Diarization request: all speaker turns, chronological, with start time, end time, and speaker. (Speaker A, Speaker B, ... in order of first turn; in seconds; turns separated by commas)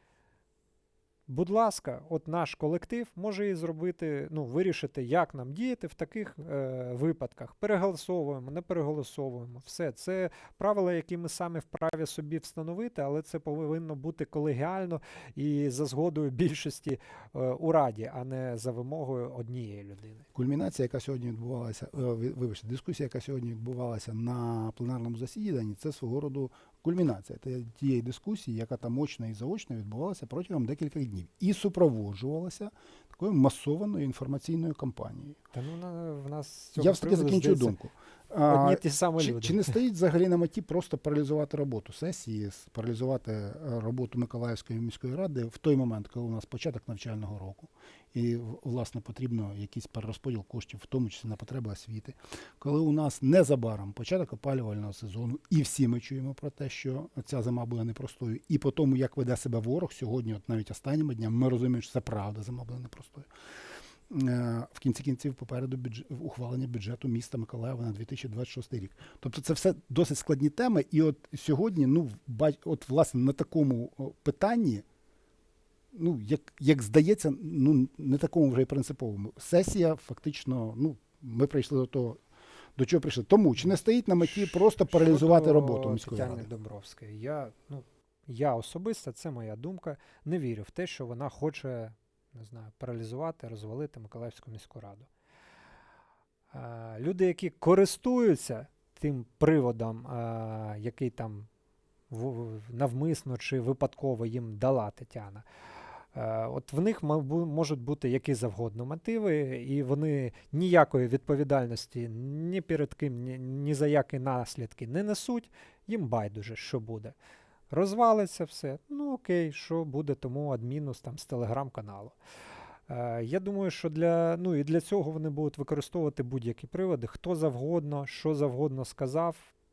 Speaker A: 1.3-20.2, Speaker B: 20.3-35.4, Speaker A: 35.5-37.8, Speaker B: 36.8-63.3, Speaker A: 38.5-39.7, Speaker B: 64.1-74.8, Speaker B: 75.9-82.2, Speaker B: 82.8-86.5, Speaker A: 84.2-95.1, Speaker A: 96.5-101.5, Speaker A: 102.1-105.4, Speaker A: 106.1-117.1, Speaker A: 117.7-122.2, Speaker A: 122.9-129.5